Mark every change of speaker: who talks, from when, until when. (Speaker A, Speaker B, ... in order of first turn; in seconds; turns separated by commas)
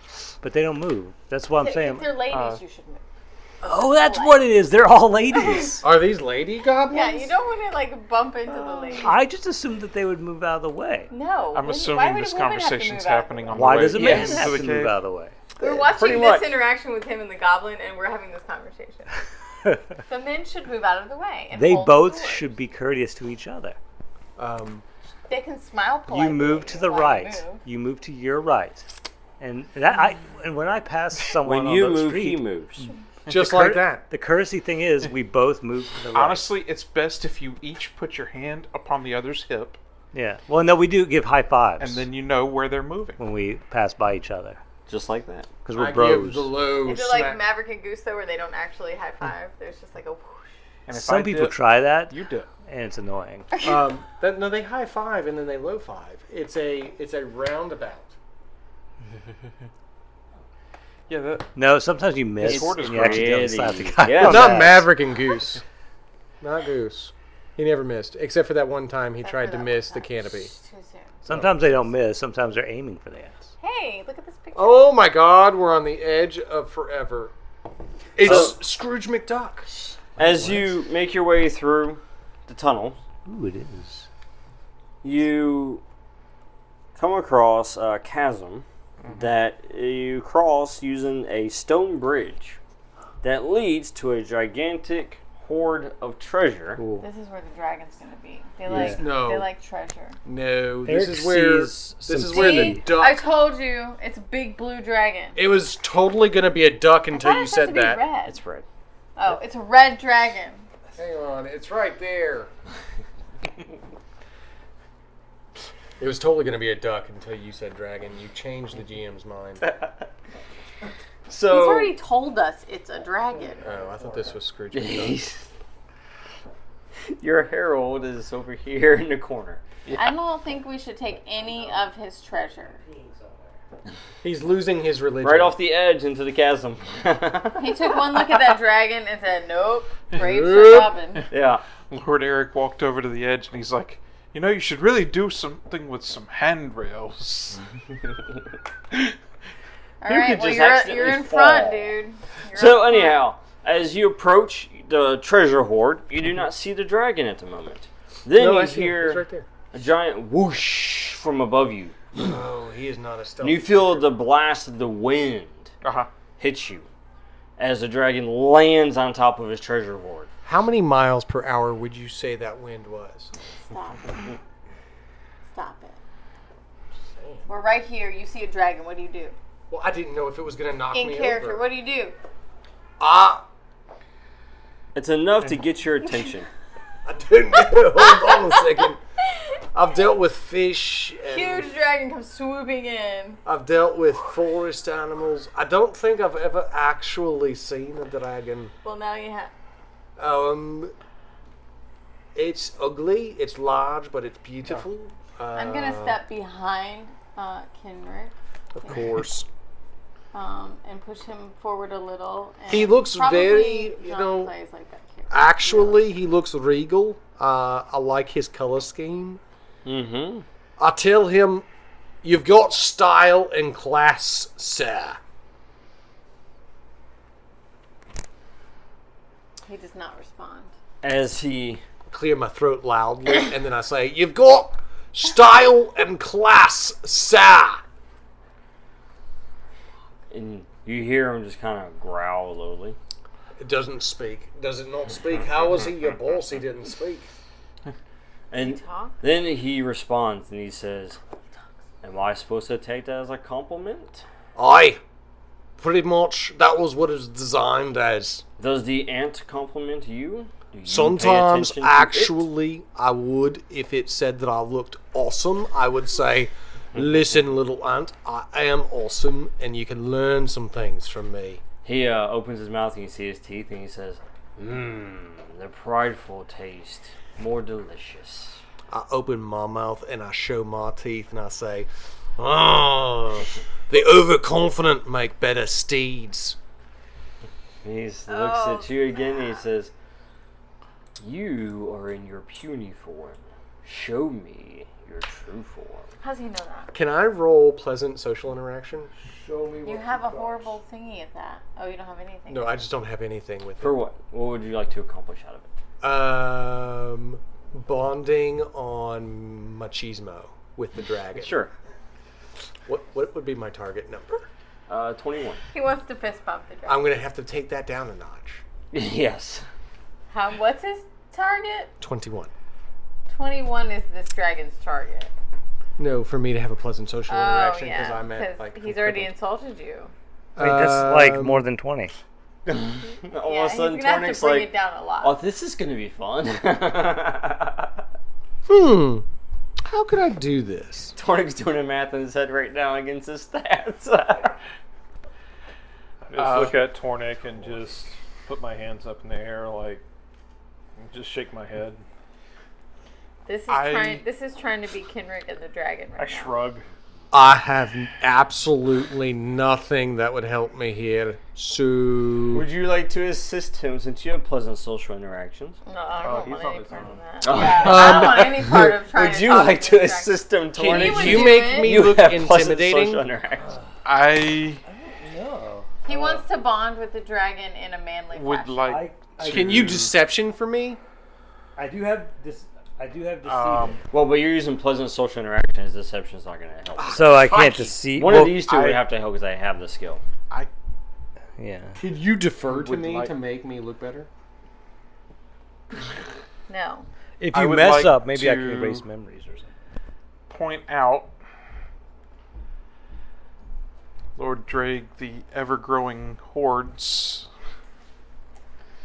Speaker A: 0.4-2.2, Speaker B: 1.5-3.0, Speaker C: 2.3-2.6, Speaker A: 3.6-5.8, Speaker B: 3.6-4.5, Speaker B: 5.3-5.8, Speaker D: 5.8-7.3, Speaker B: 6.9-9.2, Speaker A: 9.0-11.1, Speaker B: 11.1-13.9, Speaker C: 11.5-15.0, Speaker A: 13.5-15.4, Speaker E: 13.9-14.4, Speaker E: 15.6-16.5, Speaker B: 15.6-19.2, Speaker B: 20.1-22.6, Speaker A: 21.5-23.8, Speaker D: 24.4-24.9, Speaker B: 25.3-27.6, Speaker A: 26.1-28.9, Speaker A: 29.4-36.5, Speaker E: 31.4-32.9, Speaker D: 33.3-34.1, Speaker C: 36.1-39.8, Speaker A: 40.1-42.0, Speaker C: 41.8-43.2, Speaker A: 43.2-44.6, Speaker E: 44.9-45.5, Speaker A: 45.6-46.5, Speaker D: 45.8-47.4, Speaker B: 46.9-50.5, Speaker C: 50.9-51.6, Speaker A: 50.9-53.5, Speaker C: 52.1-52.5, Speaker B: 53.5-53.8, Speaker D: 53.6-58.1, Speaker C: 61.1-61.5, Speaker A: 61.5-64.9, Speaker C: 62.4-63.5, Speaker E: 62.4-64.8, Speaker D: 64.2-65.6, Speaker D: 66.4-70.5, Speaker B: 69.2-71.2, Speaker A: 71.2-73.5, Speaker B: 73.6-74.9, Speaker D: 74.5-77.3, Speaker D: 78.2-79.7, Speaker E: 78.2-78.5, Speaker E: 80.2-83.0, Speaker A: 80.2-80.6, Speaker A: 83.2-84.1, Speaker E: 85.0-85.8, Speaker E: 87.0-92.6, Speaker E: 93.2-96.8, Speaker A: 96.8-97.1, Speaker B: 97.0-100.2, Speaker A: 98.7-99.0, Speaker D: 98.7-99.5, Speaker D: 100.2-103.2, Speaker A: 100.8-102.9, Speaker B: 102.3-105.4, Speaker D: 105.4-108.0, Speaker B: 107.1-108.4, Speaker E: 108.3-108.7, Speaker B: 109.2-110.7, Speaker D: 111.0-112.5, Speaker D: 116.0-119.6, Speaker E: 119.6-120.1, Speaker E: 121.3-122.0, Speaker B: 121.5-123.7, Speaker A: 123.6-124.3, Speaker D: 123.6-125.2, Speaker E: 124.7-125.5, Speaker E: 127.1-129.6, Speaker C: 129.9-130.1, Speaker B: 129.9-132.8, Speaker A: 131.3-131.9, Speaker A: 132.7-133.6, Speaker D: 134.2-135.6, Speaker E: 135.2-137.8, Speaker B: 137.6-141.3, Speaker D: 140.2-140.9, Speaker E: 141.3-141.6, Speaker C: 141.9-147.6, Speaker B: 150.0-153.2, Speaker E: 150.1-152.0, Speaker E: 152.6-162.2, Speaker D: 158.3-159.5, Speaker D: 162.2-164.1, Speaker E: 163.4-165.7, Speaker C: 165.8-166.1, Speaker E: 166.4-166.9, Speaker E: 167.6-170.3, Speaker D: 170.4-173.3, Speaker B: 173.6-174.4, Speaker B: 175.5-176.0, Speaker D: 177.0-177.5, Speaker B: 177.5-179.3, Speaker D: 179.7-181.7, Speaker B: 180.9-182.2, Speaker D: 183.0-183.5, Speaker E: 184.9-186.5, Speaker D: 187.1-189.0, Speaker B: 187.7-188.6, Speaker D: 189.7-191.7, Speaker B: 191.3-193.4, Speaker D: 193.4-198.7, Speaker B: 198.8-199.5, Speaker D: 200.2-200.9, Speaker D: 202.3-206.2, Speaker B: 205.5-208.3, Speaker D: 208.8-209.5, Speaker B: 210.3-216.1, Speaker D: 212.7-214.5, Speaker D: 215.3-219.4, Speaker E: 219.8-220.4, Speaker D: 220.8-221.7, Speaker D: 222.2-225.2, Speaker B: 229.7-230.7, Speaker E: 231.0-231.8, Speaker D: 232.1-237.8, Speaker E: 240.3-243.0, Speaker D: 243.6-247.3, Speaker E: 248.5-251.2, Speaker B: 248.5-249.2, Speaker E: 252.0-254.2, Speaker D: 254.6-255.0, Speaker D: 255.8-258.4, Speaker E: 258.6-262.4, Speaker D: 260.9-271.6, Speaker E: 271.8-278.6, Speaker D: 278.9-286.6, Speaker E: 287.8-289.9, Speaker B: 288.3-289.6, Speaker E: 291.2-296.1, Speaker B: 296.2-296.9, Speaker D: 296.9-299.1, Speaker F: 299.2-300.8, Speaker B: 299.8-302.8, Speaker D: 302.5-304.0, Speaker E: 303.8-305.7, Speaker D: 306.0-311.6, Speaker E: 311.4-311.7, Speaker D: 312.9-314.5, Speaker E: 314.9-315.6, Speaker B: 315.7-317.1, Speaker D: 316.9-318.6, Speaker E: 318.9-319.7, Speaker B: 320.3-321.9, Speaker D: 322.0-322.5, Speaker B: 323.3-325.3, Speaker D: 326.0-329.3, Speaker B: 327.3-330.1, Speaker D: 330.6-331.6, Speaker A: 330.6-332.1, Speaker E: 332.7-338.0, Speaker B: 333.4-335.4, Speaker D: 338.7-339.2, Speaker D: 339.8-341.2, Speaker E: 341.2-344.6, Speaker F: 346.3-350.0, Speaker C: 346.4-346.8, Speaker F: 351.0-352.0, Speaker B: 353.5-356.6, Speaker C: 353.7-354.2, Speaker F: 356.2-356.9, Speaker D: 357.3-362.7, Speaker E: 362.5-365.8, Speaker B: 365.9-372.1, Speaker F: 366.2-367.9, Speaker E: 367.4-373.7, Speaker D: 367.8-368.8, Speaker D: 370.8-373.2, Speaker A: 373.6-373.9, Speaker C: 374.1-374.8, Speaker A: 374.9-376.4, Speaker B: 376.1-378.9, Speaker C: 378.3-380.1, Speaker A: 378.9-380.1, Speaker D: 379.4-381.0, Speaker A: 381.8-384.0, Speaker C: 383.4-384.0, Speaker E: 384.1-387.3, Speaker D: 387.0-388.0, Speaker A: 387.1-388.7, Speaker E: 388.1-390.2, Speaker C: 388.5-389.0, Speaker A: 391.6-392.0, Speaker D: 392.0-394.3, Speaker C: 392.7-393.3, Speaker B: 396.7-397.1, Speaker A: 397.4-399.7, Speaker C: 397.5-399.1, Speaker C: 400.5-401.3, Speaker C: 404.4-407.5